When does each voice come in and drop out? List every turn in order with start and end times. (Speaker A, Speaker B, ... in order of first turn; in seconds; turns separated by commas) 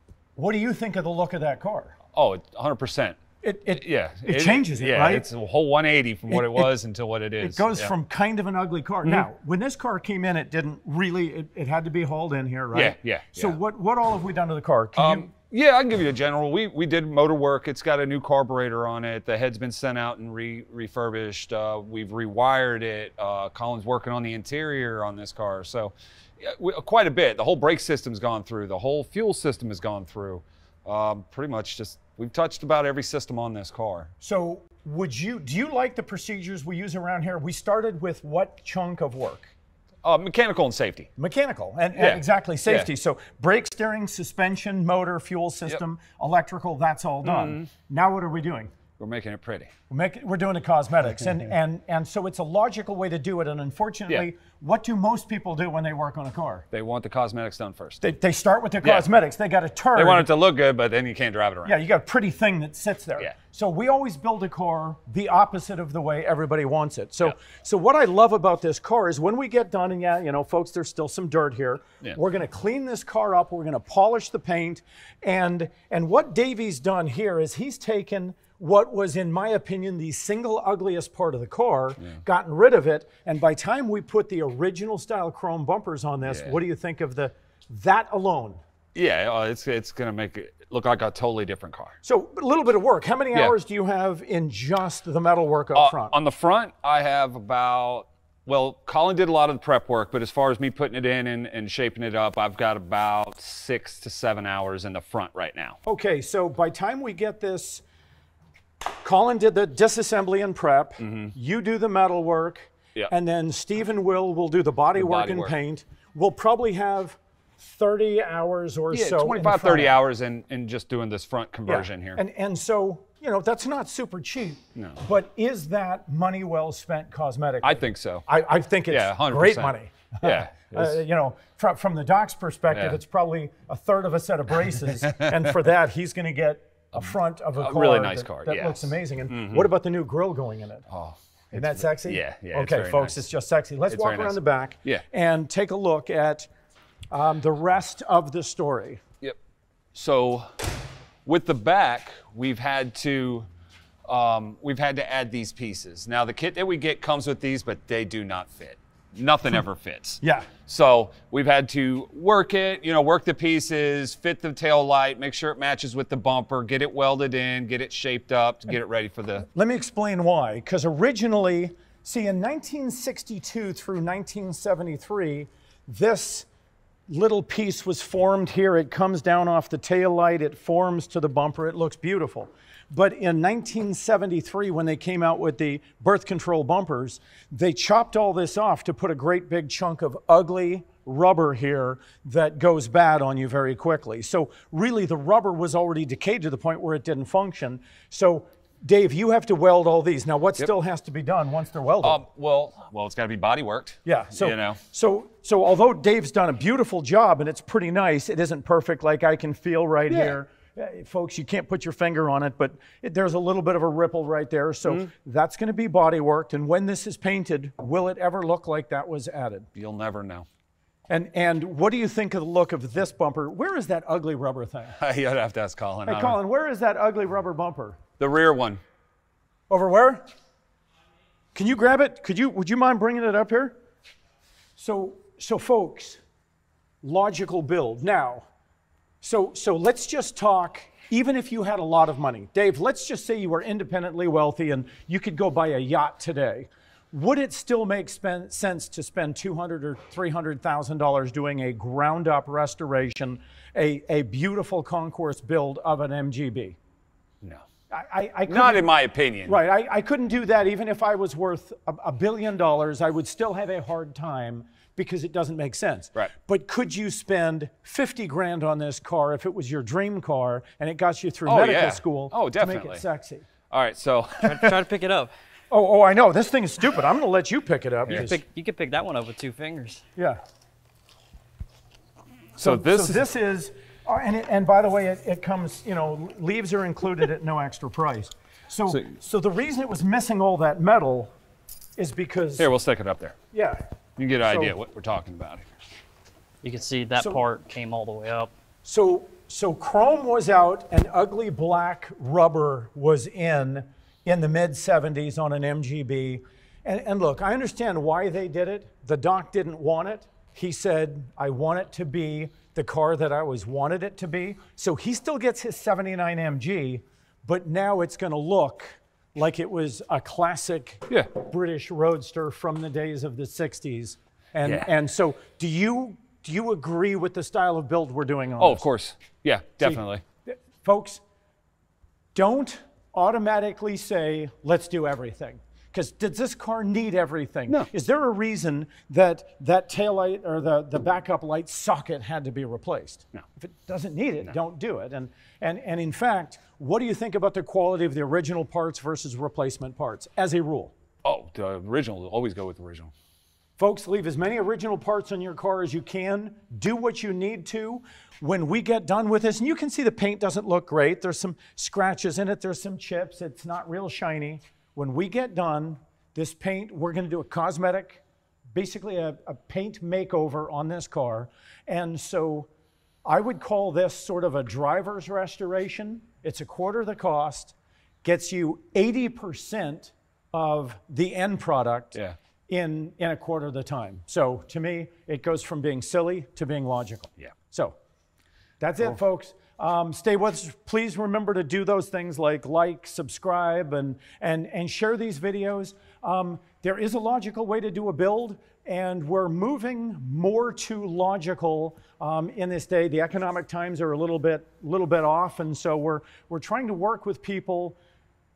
Speaker A: 0.4-2.0, Speaker B: 2.1-3.2, Speaker A: 3.4-5.3, Speaker B: 3.7-7.9, Speaker A: 6.3-6.7, Speaker A: 7.4-15.3, Speaker B: 9.0-9.3, Speaker B: 12.7-13.6, Speaker B: 15.0-34.1, Speaker A: 34.2-39.5, Speaker B: 40.0-41.1, Speaker A: 41.2-48.7, Speaker B: 42.0-42.9, Speaker B: 47.2-47.7, Speaker B: 49.0-49.7, Speaker A: 49.9-56.7, Speaker B: 56.7-58.0, Speaker A: 58.0-60.3, Speaker B: 58.8-59.1, Speaker B: 60.0-61.8, Speaker A: 61.6-88.6, Speaker B: 86.2-86.6, Speaker B: 89.0-92.0, Speaker A: 92.0-96.2, Speaker B: 95.8-105.8, Speaker A: 105.8-107.8, Speaker A: 109.0-120.0, Speaker B: 111.0-111.3, Speaker B: 115.0-115.5, Speaker B: 118.9-122.2, Speaker A: 121.7-140.9, Speaker B: 124.8-125.0, Speaker B: 127.6-128.3, Speaker B: 128.9-131.0, Speaker B: 132.7-133.0, Speaker B: 135.1-135.4, Speaker B: 136.9-139.7, Speaker B: 140.9-143.3, Speaker A: 141.5-146.5, Speaker B: 143.9-145.0, Speaker A: 147.1-149.0, Speaker B: 149.9-150.7, Speaker B: 151.2-153.5, Speaker B: 154.1-169.5, Speaker A: 160.2-160.5, Speaker A: 169.5-176.5, Speaker A: 177.1-202.2, Speaker B: 202.0-204.8, Speaker A: 204.1-219.7, Speaker B: 210.1-210.4, Speaker B: 219.8-220.5, Speaker A: 221.1-225.0, Speaker B: 225.0-226.4, Speaker A: 226.1-228.0, Speaker B: 228.2-228.8, Speaker A: 229.7-230.2, Speaker A: 231.5-233.8, Speaker A: 234.8-236.2, Speaker A: 237.0-238.5, Speaker A: 239.2-256.8, Speaker A: 257.9-258.9, Speaker B: 258.5-259.6, Speaker A: 259.4-273.5, Speaker B: 271.4-273.0, Speaker B: 273.7-274.8, Speaker C: 274.4-275.3, Speaker A: 275.7-278.4, Speaker C: 278.1-280.0, Speaker B: 282.6-283.3, Speaker A: 282.6-291.3, Speaker A: 292.0-292.7, Speaker B: 292.6-293.4, Speaker A: 293.5-293.8, Speaker B: 294.2-295.7, Speaker A: 294.4-294.8, Speaker C: 296.6-298.5, Speaker A: 297.2-297.4, Speaker A: 298.8-328.9, Speaker B: 324.6-324.9, Speaker B: 328.6-330.2, Speaker A: 329.8-331.2, Speaker A: 332.4-350.9, Speaker B: 351.2-353.1, Speaker A: 353.8-372.7, Speaker A: 373.3-388.0, Speaker A: 388.8-408.0